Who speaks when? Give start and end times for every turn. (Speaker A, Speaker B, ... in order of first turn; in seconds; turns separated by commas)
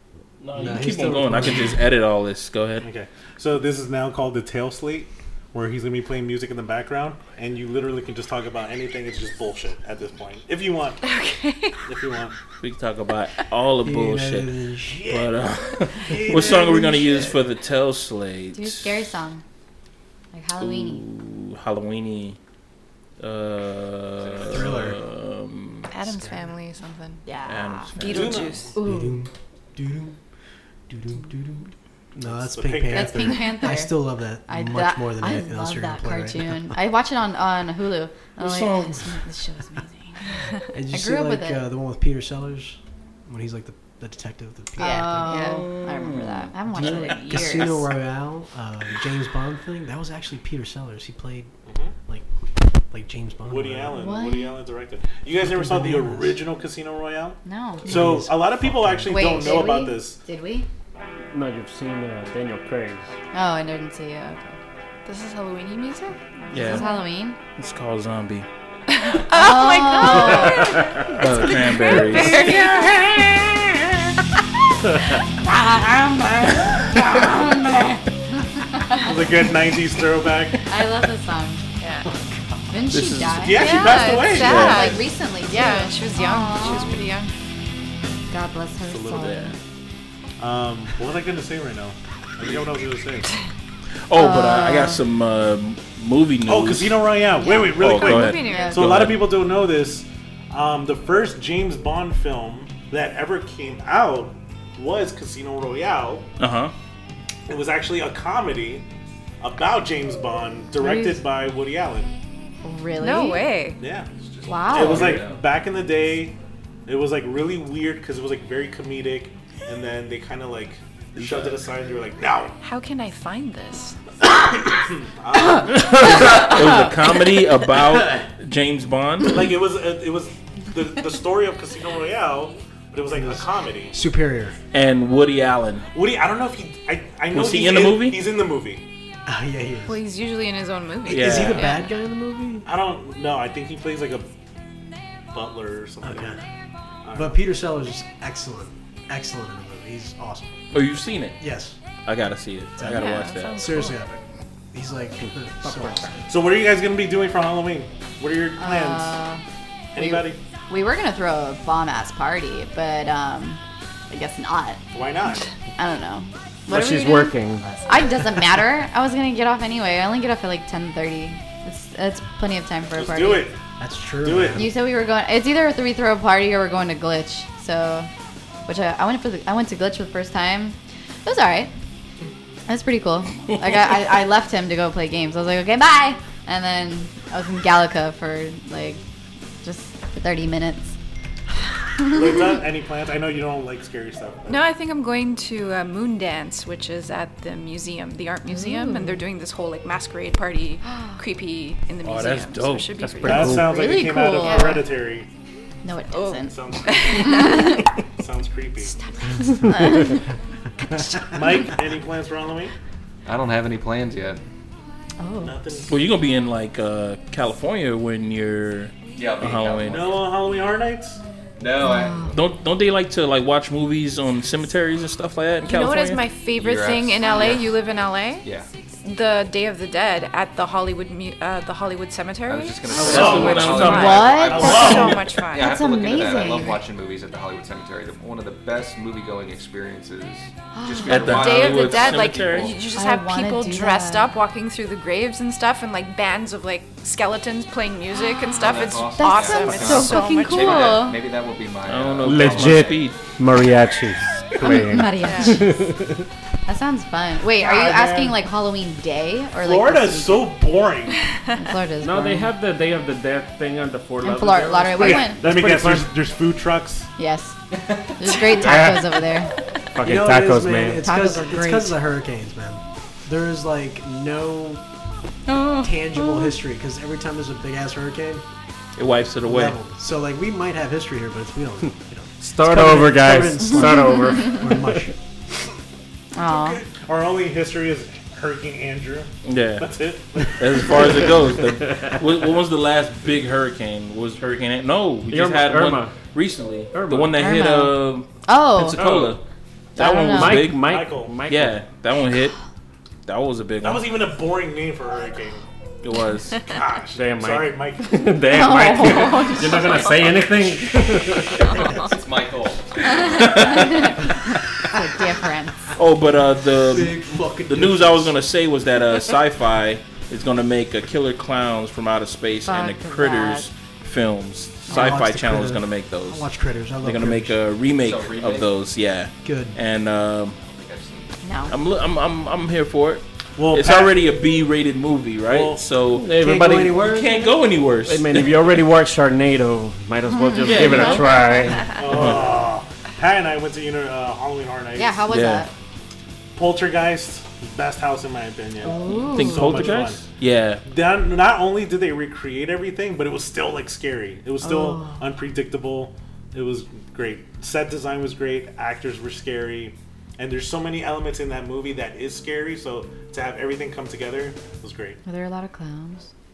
Speaker A: 0.4-2.9, Speaker B: 0.6-1.8, Speaker C: 2.8-11.1, Speaker D: 11.0-11.9, Speaker C: 11.8-12.4, Speaker A: 12.6-18.9, Speaker B: 13.8-17.3, Speaker E: 18.5-19.4, Speaker E: 20.3-21.0, Speaker A: 20.6-22.4, Speaker A: 23.2-25.9, Speaker F: 24.1-24.8, Speaker B: 24.4-25.0, Speaker D: 25.9-27.2, Speaker E: 27.2-27.9, Speaker A: 27.4-28.5, Speaker D: 27.9-28.7, Speaker C: 28.0-28.8, Speaker E: 28.7-29.2, Speaker B: 28.8-30.2, Speaker B: 30.9-36.8, Speaker C: 32.2-33.5, Speaker E: 32.9-40.3, Speaker A: 38.4-39.2, Speaker B: 40.7-45.6, Speaker E: 40.9-41.6, Speaker E: 44.8-47.8, Speaker A: 45.0-47.8, Speaker B: 46.7-51.5, Speaker C: 51.6-51.9, Speaker B: 52.9-54.0, Speaker C: 53.5-60.2, Speaker E: 53.9-54.6, Speaker B: 55.4-56.3, Speaker E: 57.4-58.1, Speaker B: 57.9-59.2, Speaker E: 59.1-60.7, Speaker G: 61.3-63.1, Speaker E: 63.3-64.5, Speaker D: 65.0-67.0, Speaker E: 66.5-67.4, Speaker A: 66.5-66.9, Speaker A: 67.5-68.5, Speaker D: 68.9-73.5, Speaker E: 69.3-70.9, Speaker A: 71.1-72.7, Speaker E: 72.1-72.5, Speaker E: 75.1-78.0, Speaker E: 78.6-79.2, Speaker C: 78.9-80.6, Speaker E: 80.7-81.6, Speaker D: 81.8-82.0, Speaker B: 82.0-82.3, Speaker E: 82.7-87.0, Speaker A: 82.9-85.0, Speaker C: 83.4-84.6, Speaker D: 83.6-87.3, Speaker E: 88.3-89.5, Speaker A: 88.9-89.5, Speaker C: 90.4-93.3, Speaker A: 94.1-97.1, Speaker E: 94.1-95.0, Speaker C: 96.4-106.3, Speaker E: 97.4-98.8, Speaker A: 97.7-99.3, Speaker D: 97.8-99.0, Speaker A: 106.4-106.7, Speaker C: 107.5-108.9, Speaker C: 109.4-112.1, Speaker E: 110.8-111.2, Speaker E: 112.6-113.4, Speaker D: 113.0-113.8, Speaker C: 113.8-114.1, Speaker F: 114.2-115.5, Speaker E: 114.5-115.2, Speaker C: 114.7-122.6, Speaker A: 121.2-121.6, Speaker D: 122.6-124.0, Speaker C: 124.3-126.6, Speaker A: 126.0-129.5, Speaker C: 129.3-134.0, Speaker B: 133.1-134.6, Speaker A: 134.7-135.9, Speaker C: 135.9-138.8, Speaker A: 137.3-138.3, Speaker B: 139.2-140.0, Speaker D: 139.8-141.9, Speaker B: 141.0-142.7, Speaker A: 141.1-141.7, Speaker C: 142.7-144.3, Speaker C: 145.3-146.3, Speaker B: 146.0-146.4, Speaker C: 147.0-147.4, Speaker B: 147.1-150.6, Speaker A: 150.7-151.4, Speaker B: 151.4-151.8, Speaker A: 152.0-153.6, Speaker B: 152.8-154.2, Speaker D: 152.8-154.0, Speaker B: 154.7-156.2, Speaker C: 156.3-159.2, Speaker E: 158.6-159.4, Speaker C: 159.9-160.4, Speaker E: 159.9-164.8, Speaker C: 164.9-165.5, Speaker E: 165.8-167.3, Speaker G: 166.7-167.9, Speaker E: 167.8-173.5, Speaker C: 172.9-173.6, Speaker B: 173.8-174.7, Speaker C: 174.2-174.8, Speaker E: 174.5-178.1, Speaker E: 178.7-181.7, Speaker E: 182.7-189.0, Speaker E: 189.6-190.9, Speaker C: 192.0-194.6, Speaker D: 194.4-203.6, Speaker E: 198.5-199.2, Speaker A: 202.0-202.9, Speaker G: 203.0-203.9, Speaker C: 203.2-205.3, Speaker E: 203.5-204.9, Speaker D: 204.4-204.8, Speaker E: 205.8-207.8, Speaker D: 206.1-207.7, Speaker C: 206.5-209.0, Speaker D: 208.8-209.6, Speaker E: 209.6-210.2, Speaker E: 210.8-211.7, Speaker C: 211.3-212.7, Speaker F: 213.2-214.4, Speaker E: 215.2-215.6, Speaker C: 215.4-216.0, Speaker A: 215.9-220.2, Speaker F: 219.1-220.7, Speaker C: 219.9-221.2, Speaker F: 221.6-222.3, Speaker E: 221.8-222.3, Speaker A: 222.3-226.2, Speaker D: 225.6-228.4, Speaker F: 226.5-227.7, Speaker F: 228.4-228.7, Speaker D: 229.0-235.8, Speaker F: 232.4-242.8, Speaker C: 232.9-233.7, Speaker A: 232.9-234.8, Speaker E: 233.7-236.8, Speaker C: 234.5-235.2, Speaker E: 240.7-241.3, Speaker A: 241.0-242.8, Speaker D: 241.1-251.0, Speaker E: 242.9-244.3, Speaker F: 248.6-253.0, Speaker E: 249.1-251.2, Speaker A: 251.8-253.3, Speaker G: 252.2-256.2, Speaker E: 254.6-255.8, Speaker D: 255.2-255.6, Speaker E: 256.6-260.5, Speaker C: 257.6-258.4, Speaker C: 259.6-261.2, Speaker E: 261.5-262.5, Speaker G: 262.0-266.1, Speaker E: 264.2-265.4, Speaker C: 265.0-267.1, Speaker E: 267.2-267.6, Speaker E: 268.2-269.5, Speaker G: 268.6-269.2, Speaker G: 269.9-271.1, Speaker B: 270.0-274.8, Speaker E: 270.9-272.0, Speaker B: 275.6-278.4, Speaker A: 279.0-279.8, Speaker B: 279.4-285.1, Speaker G: 282.4-285.1, Speaker E: 283.8-284.6, Speaker E: 286.3-286.8, Speaker C: 286.4-291.4, Speaker A: 289.4-289.9, Speaker A: 290.5-299.4, Speaker G: 291.7-292.4, Speaker G: 295.3-296.2, Speaker G: 296.9-297.4, Speaker E: 297.3-299.1, Speaker G: 299.0-299.4, Speaker A: 299.9-300.9, Speaker E: 300.0-300.7, Speaker G: 300.2-301.8, Speaker C: 300.8-301.4, Speaker A: 301.4-302.6, Speaker A: 303.2-304.2, Speaker C: 303.8-305.7, Speaker A: 306.0-306.8, Speaker C: 306.6-308.3, Speaker G: 307.1-311.7, Speaker E: 308.4-310.1, Speaker F: 311.5-314.1, Speaker A: 313.1-314.3, Speaker E: 313.5-315.9, Speaker A: 315.9-326.5, Speaker B: 316.7-318.4, Speaker E: 322.6-323.7, Speaker B: 324.9-327.6, Speaker E: 324.9-325.2, Speaker A: 327.0-330.6, Speaker F: 327.9-328.8, Speaker B: 329.4-329.8, Speaker F: 330.6-331.4, Speaker E: 331.4-331.8, Speaker A: 331.7-336.3, Speaker C: 333.6-334.3, Speaker C: 335.4-335.8, Speaker G: 336.1-337.1, Speaker B: 336.2-337.7, Speaker A: 337.0-338.7, Speaker G: 337.9-342.0, Speaker E: 340.2-341.7, Speaker A: 340.6-341.4, Speaker C: 341.9-345.4, Speaker A: 342.0-342.6, Speaker E: 344.9-345.7, Speaker A: 345.3-345.7, Speaker C: 346.5-365.2, Speaker E: 348.8-349.9, Speaker A: 349.0-350.8, Speaker E: 354.6-355.2, Speaker E: 365.2-366.3